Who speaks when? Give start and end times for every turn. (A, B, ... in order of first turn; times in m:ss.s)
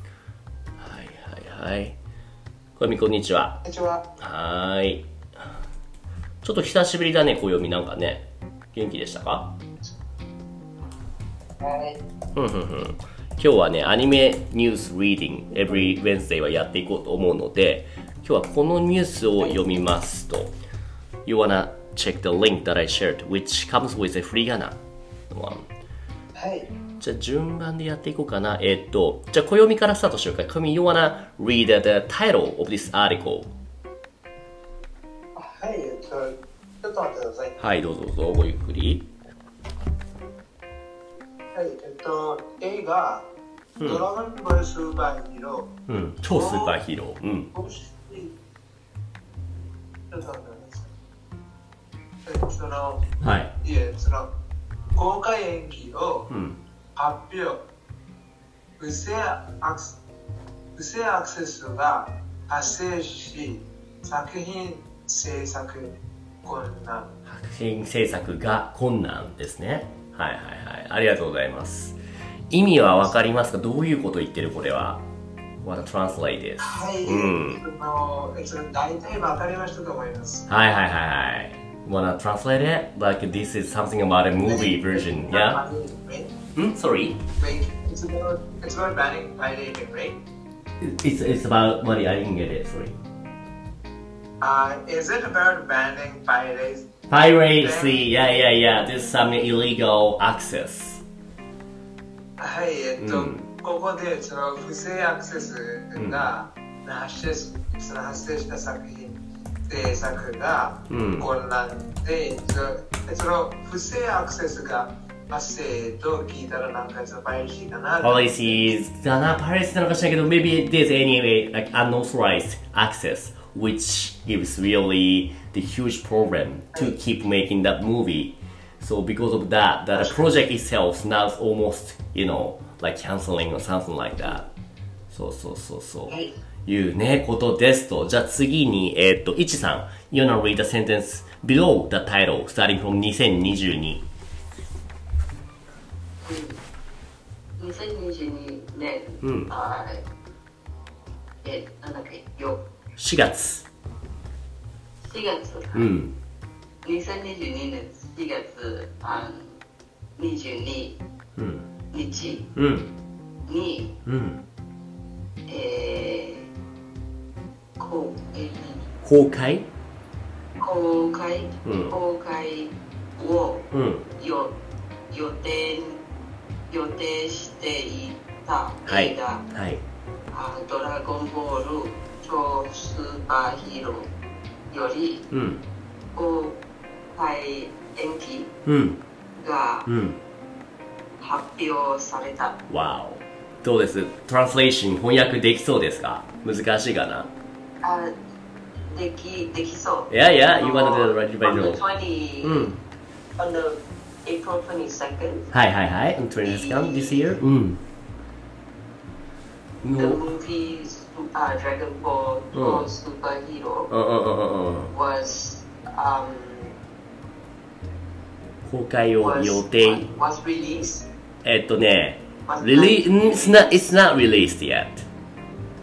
0:00.8-0:02.0 A
0:02.8-0:03.6 A
0:03.6-0:04.0 B
0:04.2-0:05.0 A
0:06.4-0:09.5 A
0:11.6-0:12.0 B
0:12.4-0:20.5 A
0:21.2-0:24.8 A
0:25.3-0:25.7 A
0:26.4-0:26.7 B
0:27.0-0:33.5 A
0:35.4-0:37.6 B
0:37.6-0:39.1 A
0:41.5-0:43.2 B
0:43.8-0:44.0 A
0:43.8-0:45.7 B
0:45.9-0:47.5 A
0:46.3-0:46.8 B
0:47.5-0:48.3 B
0:50.1-0:50.9 B
0:52.3-0:54.3 B
0:53.2-0:53.5 A
0:55.0-0:56.3 B
0:56.3-0:56.6 A
0:57.0-0:57.6 B
0:58.8-1:00.0 B
1:00.8-1:07.1 B
1:07.3-1:12.0 A
1:12.5-1:15.0 A
1:12.5-1:13.2 B
1:15.6-1:17.6 A
1:16.6-1:20.5 B
1:20.5-1:25.6 A
1:24.5-1:26.4 B
1:26.6-1:27.2 A
1:27.4-1:30.2 B
1:30.8-1:33.0 A
1:34.4-1:36.9 B
1:37.1-1:41.0 A
1:37.6-1:38.0 B
1:42.4-1:58.7 B
1:43.0-1:43.4 A
1:46.0-1:46.3 A
1:50.9-1:51.3 A
1:58.0-2:14.5 A
2:10.0-2:10.2 B
2:15.1-2:24.0 A
2:26.2-2:26.6 C
2:27.6-2:30.0 C
2:29.2-2:29.5 A
2:31.4-2:32.6 C
2:33.0-2:33.7 A
2:35.0-2:35.9 C
2:35.7-2:36.1 A
2:36.8-2:39.6 C
2:40.2-2:41.0 C
2:41.4-2:41.7 A
2:41.9-2:42.5 C
2:42.6-2:42.9 A
2:43.5-2:44.0 C
2:44.1-2:44.4 A
2:45.5-2:46.5 C
2:47.8-2:48.9 C
2:49.0-2:49.7 A
2:50.6-2:54.6 C
2:51.6-2:51.9 A
2:53.7-2:54.1 A
2:55.1-2:56.0 C
2:56.7-2:59.4 C
2:58.9-2:59.8 A
3:00.3-3:04.1 C
3:04.7-3:05.3 C
3:05.3-3:05.6 A
3:06.1-3:06.6 C
3:07.1-3:08.5 C
3:08.7-3:09.0 A
3:09.4-3:09.9 C
3:09.9-3:10.2 A
3:11.2-3:12.6 C
3:12.7-3:17.3 A
3:17.8-3:18.1 C
3:18.9-3:22.7 C
3:20.1-3:21.8 A
3:22.4-3:22.8 A
3:23.4-3:25.5 C
3:25.5-3:27.8 A
3:26.4-3:27.4 C
3:29.8-3:30.2 A
3:30.0-3:33.9 C
3:32.5-3:32.9 A
3:33.9-3:34.9 A
3:34.9-3:36.8 C
3:38.6-3:40.1 A
3:39.2-3:41.1 C
3:41.4-3:45.1 A
3:42.5-3:44.0 C